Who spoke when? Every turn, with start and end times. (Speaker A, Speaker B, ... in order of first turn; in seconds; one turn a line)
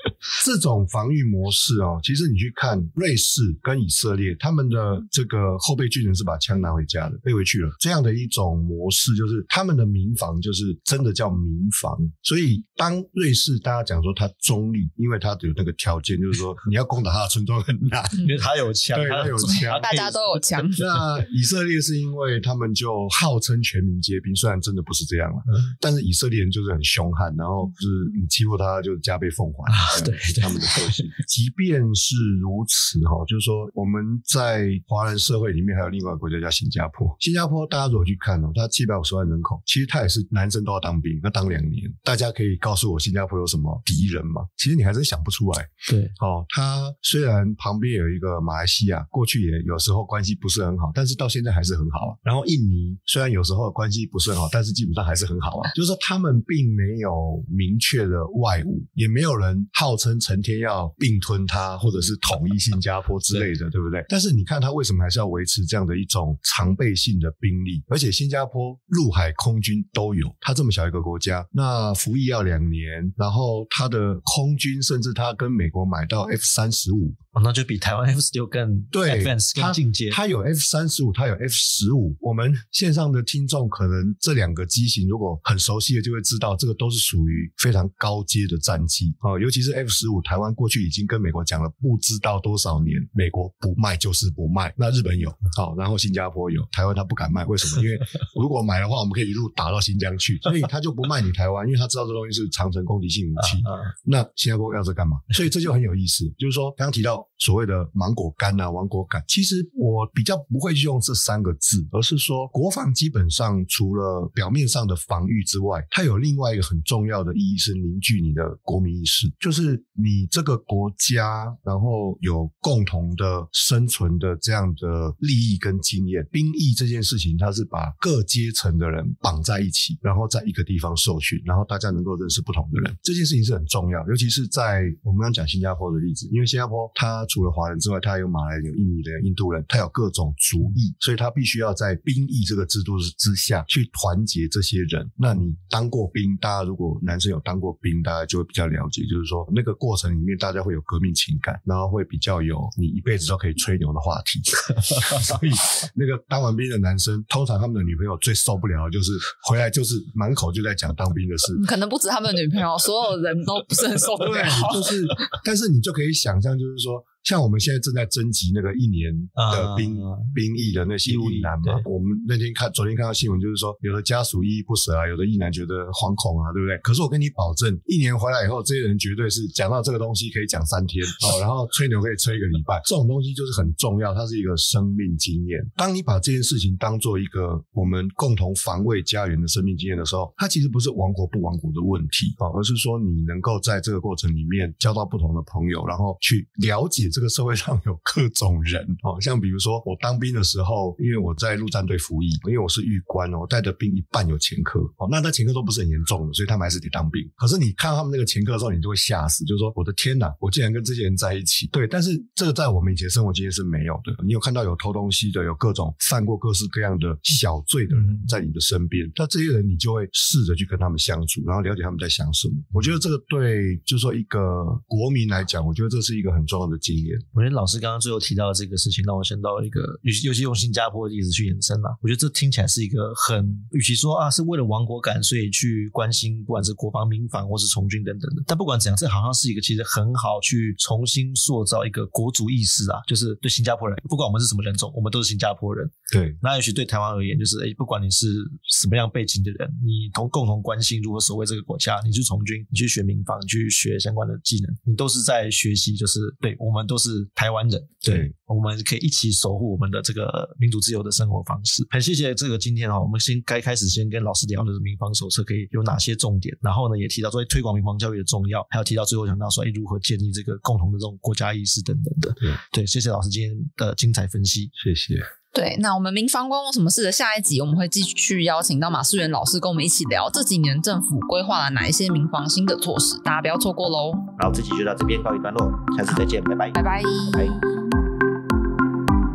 Speaker A: 0.3-18.3
Speaker B: 18.2-20.7
Speaker A: 18.9-20.2
Speaker C: 19.6-20.8
Speaker A: 20.7-77.2
Speaker B: 29.7-31.0
Speaker B: 45.9-46.1
Speaker B: 77.3-80.2
Speaker A: 78.9-161.6
Speaker C: 161.6-165.1
Speaker A: 164.2-227.2
Speaker B: 169.4-170.3
Speaker B: 171.1-171.8
Speaker B: 218.0-218.2
Speaker B: 227.3-274.7
Speaker A: 246.1-246.4
Speaker A: 258.1-258.3
Speaker A: 274.8-275.3
Speaker C: 275.5-284.3
Speaker B: 284.4-287.6
Speaker C: 286.8-287.9